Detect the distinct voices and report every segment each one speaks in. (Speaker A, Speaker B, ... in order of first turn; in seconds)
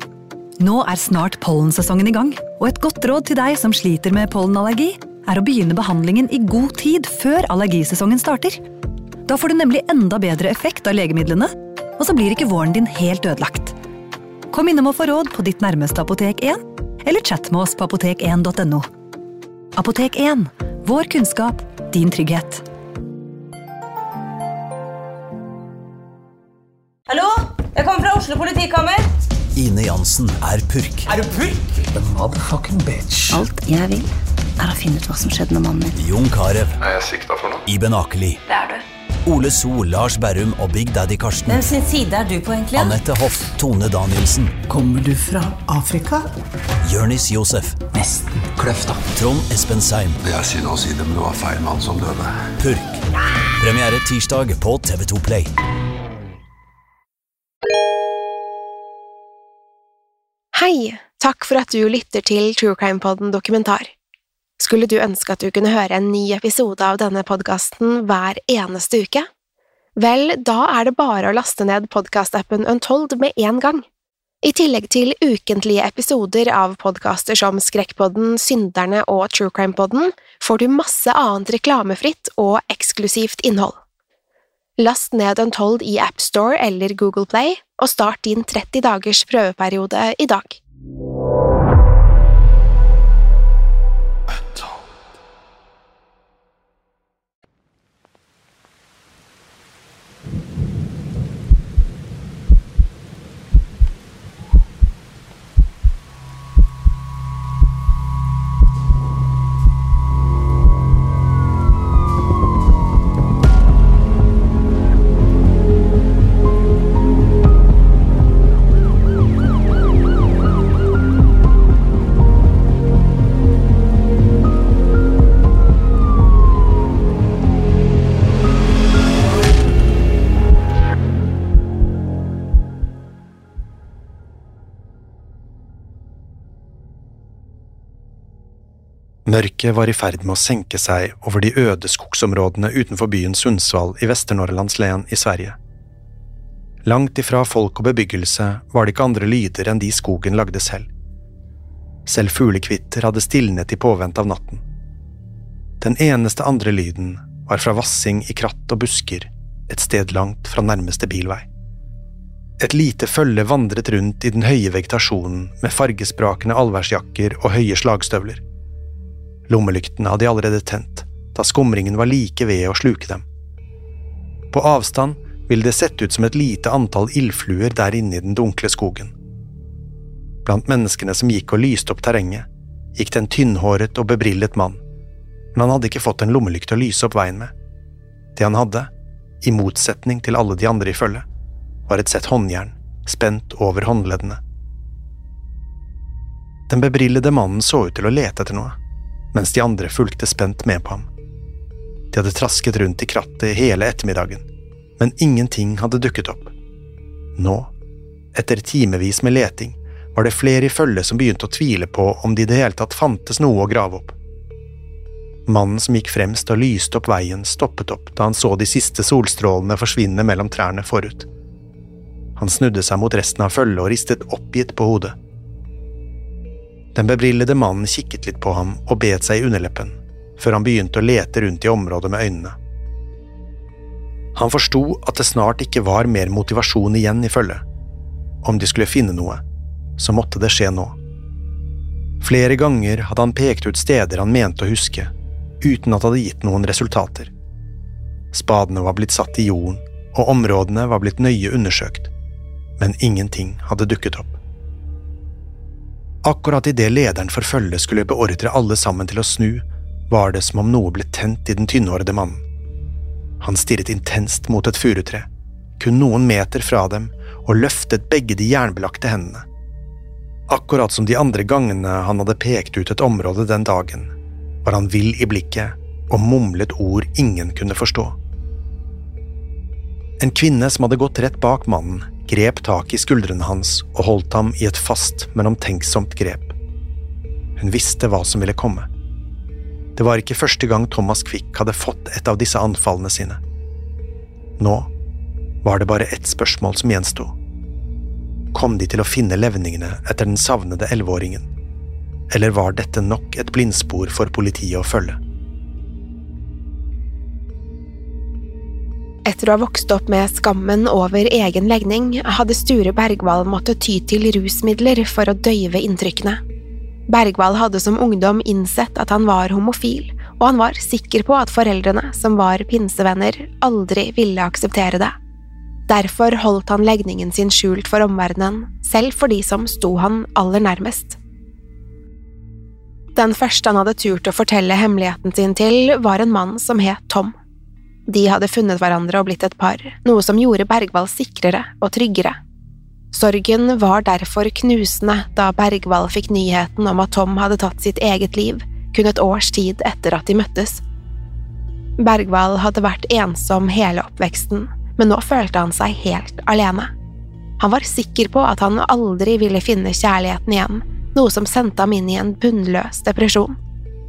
Speaker A: 0.6-8.6, 9.3-13.7, 14.5-18.9, 19.8-22.6
Speaker B: 27.1-29.0, 31.3-31.6, 41.5-43.0
Speaker C: 29.6-31.1, 35.9-36.8, 37.6-38.4, 39.2-41.6, 42.7-44.5, 46.8-47.8, 49.1-50.2, 52.6-53.0, 53.6-55.5
Speaker D: 31.8-33.4, 44.7-46.3, 47.9-49.0
Speaker E: 33.3-35.9
Speaker F: 36.8-37.6, 50.2-52.3
Speaker G: 60.5-63.9, 64.6-69.3, 70.0-73.8, 74.4-83.8, 84.8-90.6, 309.2-316.4, 317.1-325.1, 325.9-331.2, 333.1-337.3, 338.1-342.4, 343.1-350.8, 352.0-356.9, 357.6-363.6
Speaker H: 139.2-145.6, 146.8-150.9, 152.1-154.6, 155.8-161.5, 162.6-168.4, 169.5-173.2, 174.5-179.1, 180.4-184.8, 185.5-187.5, 188.3-191.2, 191.9-194.4, 196.7-198.8, 199.3-201.1, 202.1-204.4, 205.0-206.5, 207.3-207.7, 208.3-214.1, 215.5-221.3, 222.3-225.1, 226.9-232.6, 234.3-237.6, 238.4-239.4, 240.0-240.9, 242.2-247.3, 248.3-252.1, 252.8-254.4, 256.2-262.4, 263.4-265.3, 265.8-269.4, 270.5-274.1, 274.6-278.2, 280.2-286.6, 287.6-288.9, 289.9-293.4, 294.6-294.9, 295.6-297.3, 298.5-301.5, 302.3-305.2